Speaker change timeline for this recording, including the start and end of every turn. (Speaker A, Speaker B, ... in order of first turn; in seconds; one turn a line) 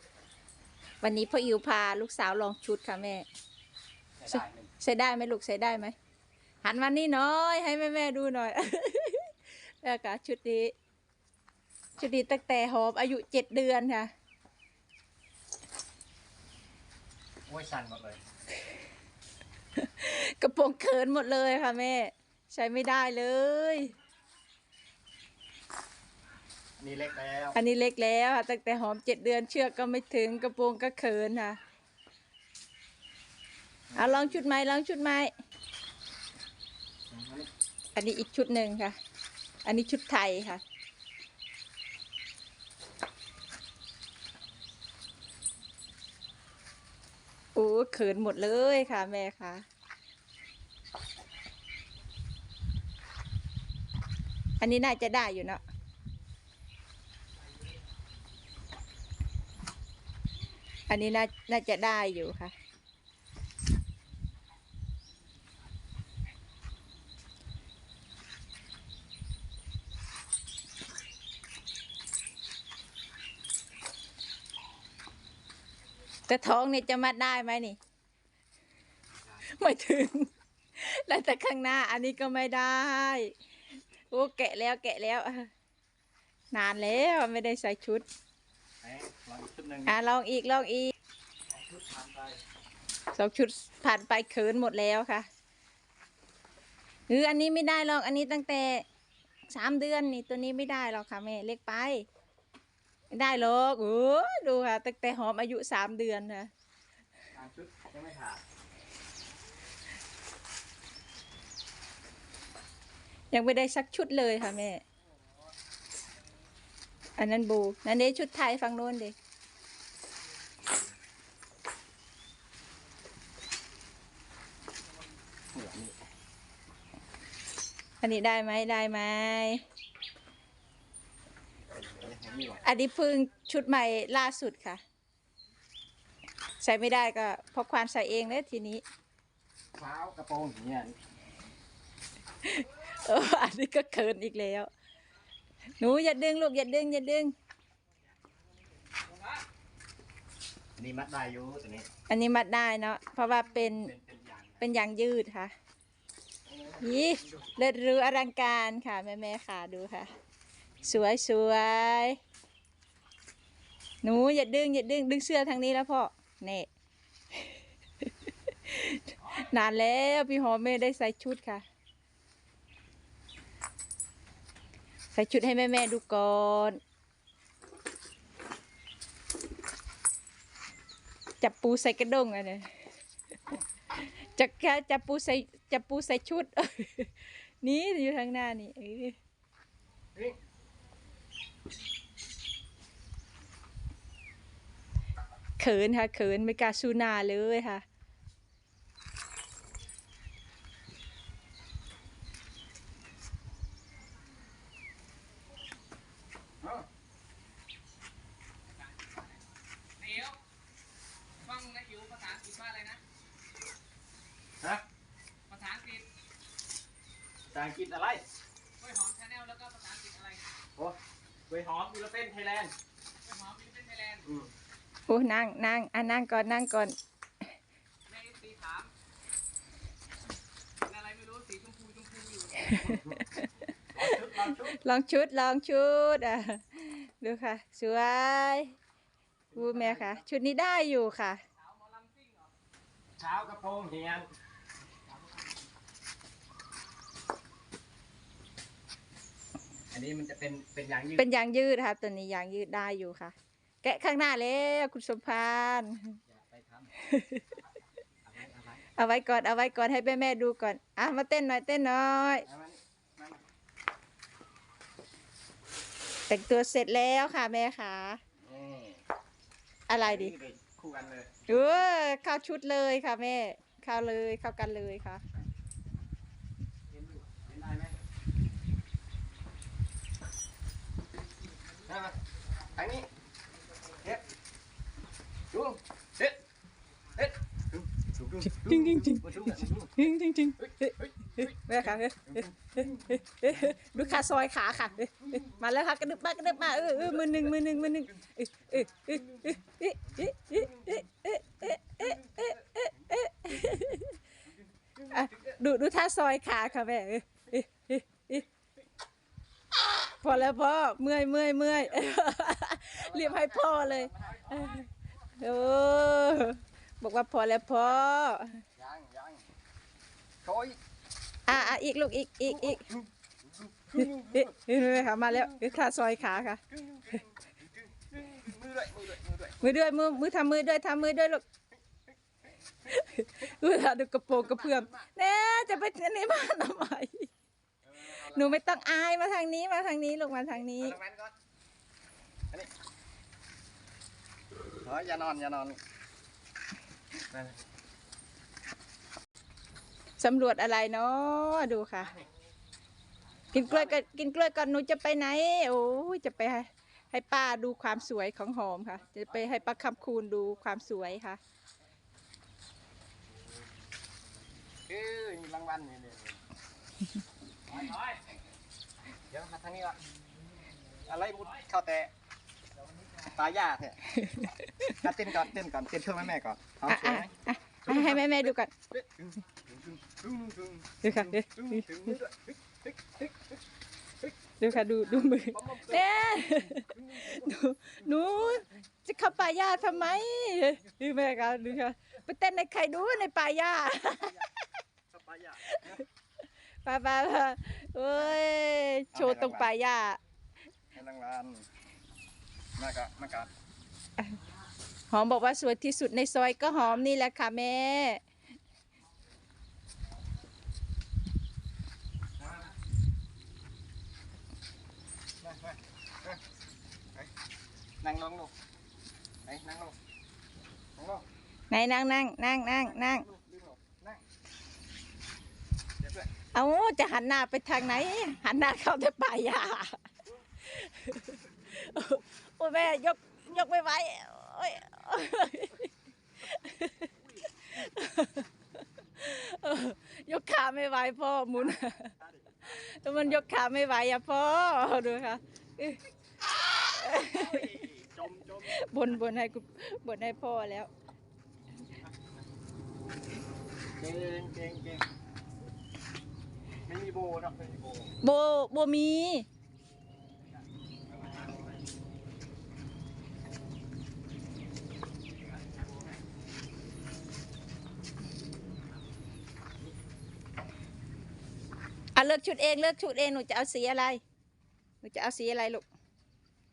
Speaker A: 1.0-3.2
Speaker B: 4.2-4.7
Speaker A: 4.3-5.9
Speaker A: 6.6-10.7
Speaker A: 12.0-14.1
Speaker B: 17.5-18.2
Speaker A: 19.8-23.9
Speaker B: 26.8-27.6
Speaker A: 27.5-31.6
Speaker B: 33.9-34.4
Speaker A: 34.0-35.3
Speaker B: 37.1-37.5
Speaker A: 38.0-39.0
Speaker A: 39.6-40.6
Speaker A: 47.5-49.6
Speaker A: 54.6-55.6
Speaker A: 60.9-62.5
Speaker A: 76.3-77.8
Speaker A: 79.5-83.3
Speaker A: 84.1-85.5
Speaker A: 86.5-88.0
Speaker B: 88.8-90.0
Speaker A: 89.8-90.9
Speaker B: 91.5-92.4
Speaker A: 93.1-95.3
Speaker A: 97.1-98.8
Speaker A: 99.5-102.0
Speaker A: 103.1-106.5
Speaker B: 107.3-108.4
Speaker A: 113.3-114.8
Speaker A: 117.2-119.1
Speaker B: 125.5-126.0
Speaker A: 128.0-129.6
Speaker B: 131.7-132.6
Speaker A: 132.6-134.8
Speaker A: 136.6-138.8
Speaker B: 139.8-141.0
Speaker A: 142.4-144.7
Speaker A: 145.8-147.3
Speaker C: 149.1-149.4
Speaker B: 150.8-151.9
Speaker A: 152.1-153.9
Speaker B: 153.6-154.7
Speaker A: 154.6-155.5
Speaker B: 156.4-156.8
Speaker A: 156.8-160.1
Speaker A: 160.8-162.2
Speaker A: 164.0-166.7
Speaker A: 168.7-171.6
Speaker A: 175.1-176.8
Speaker A: 181.4-182.7
Speaker A: 184.2-189.2
Speaker A: 195.6-197.8
Speaker C: 209.0-209.3
Speaker C: 210.0-210.4
Speaker C: 211.4-213.0
Speaker C: 215.5-216.1
Speaker B: 217.5-218.3
Speaker C: 218.8-220.4
Speaker B: 221.5-222.7
Speaker C: 223.2-224.2
Speaker B: 224.2-224.5
Speaker A: 225.1-226.9
Speaker C: 228.1-228.9
Speaker C: 230.8-232.8
Speaker A: 232.7-233.5
Speaker B: 233.9-234.8
Speaker A: 234.6-238.8
Speaker B: 239.5-240.2
Speaker A: 239.5-241.4
Speaker C: 241.7-242.5
Speaker B: 243.2-244.3
Speaker B: 249.9-251.3
Speaker A: 251.2-256.2
Speaker B: 256.3-257.0
Speaker A: 257.0-257.4
Speaker B: 258.2-258.8
Speaker A: 259.0-262.5
Speaker B: 262.5-263.4
Speaker A: 266.3-268.2
Speaker B: 268.4-269.0
Speaker A: 269.9-270.3
Speaker B: 270.0-271.9
Speaker A: 271.5-275.2
Speaker B: 277.1-278.0
Speaker B: 281.9-282.2
Speaker B: 282.8-283.1
Speaker B: 285.5-286.4
Speaker B: 287.2-291.7
Speaker A: 288.6-289.3
Speaker A: 290.0-304.2
Speaker B: 292.2-293.2
Speaker B: 295.2-295.6
Speaker B: 296.5-297.7
Speaker B: 299.1-299.6
Speaker B: 300.6-301.0
Speaker B: 302.0-302.9
Speaker B: 304.8-305.6
Speaker A: 305.1-308.4
Speaker A: 310.1-314.9
Speaker B: 312.9-314.9
Speaker A: 315.4-318.6
Speaker B: 318.8-319.4
Speaker B: 320.4-320.8
Speaker A: 321.5-322.9
Speaker B: 322.5-325.8
Speaker A: 324.3-326.6
Speaker B: 326.7-329.8
Speaker A: 329.6-331.4
Speaker A: 332.9-337.3
Speaker B: 334.4-335.1
Speaker B: 337.8-338.6
Speaker A: 338.1-341.0
Speaker B: 340.6-341.3
Speaker B: 344.8-345.8
Speaker B: 347.3-347.6
Speaker A: 350.2-352.1
Speaker A: 353.5-361.4
Speaker B: 353.6-353.9
Speaker B: 364.9-366.4
Speaker B: 367.7-368.0
Speaker B: 369.3-370.0
Speaker B: 371.0-372.1
Speaker B: 373.2-374.2
Speaker A: 374.2-374.9
Speaker B: 374.9-377.3
Speaker A: 376.9-378.7
Speaker B: 377.9-383.6
Speaker A: 381.0-381.8
Speaker A: 384.6-394.5
Speaker B: 385.2-387.5
Speaker B: 395.1-396.0
Speaker A: 395.7-396.0
Speaker A: 396.8-400.2
Speaker B: 399.1-399.7
Speaker B: 400.9-401.7
Speaker B: 402.8-403.5
Speaker A: 405.1-408.2
Speaker B: 412.4-412.7
Speaker B: 415.4-416.4
Speaker B: 418.0-418.5
Speaker B: 419.4-420.0
Speaker B: 421.0-421.2
Speaker A: 421.7-423.3
Speaker B: 422.9-424.2
Speaker B: 426.0-426.3
Speaker A: 426.5-430.0
Speaker A: 430.6-435.9
Speaker A: 436.4-438.5
Speaker A: 439.1-446.0
Speaker B: 441.6-442.6
Speaker A: 446.8-447.7
Speaker B: 447.1-449.1
Speaker A: 448.6-450.9
Speaker B: 454.0-455.1
Speaker B: 456.9-458.1
Speaker A: 458.2-459.5
Speaker B: 461.1-461.7
Speaker B: 465.6-465.9
Speaker A: 472.1-474.2
Speaker A: 475.0-475.9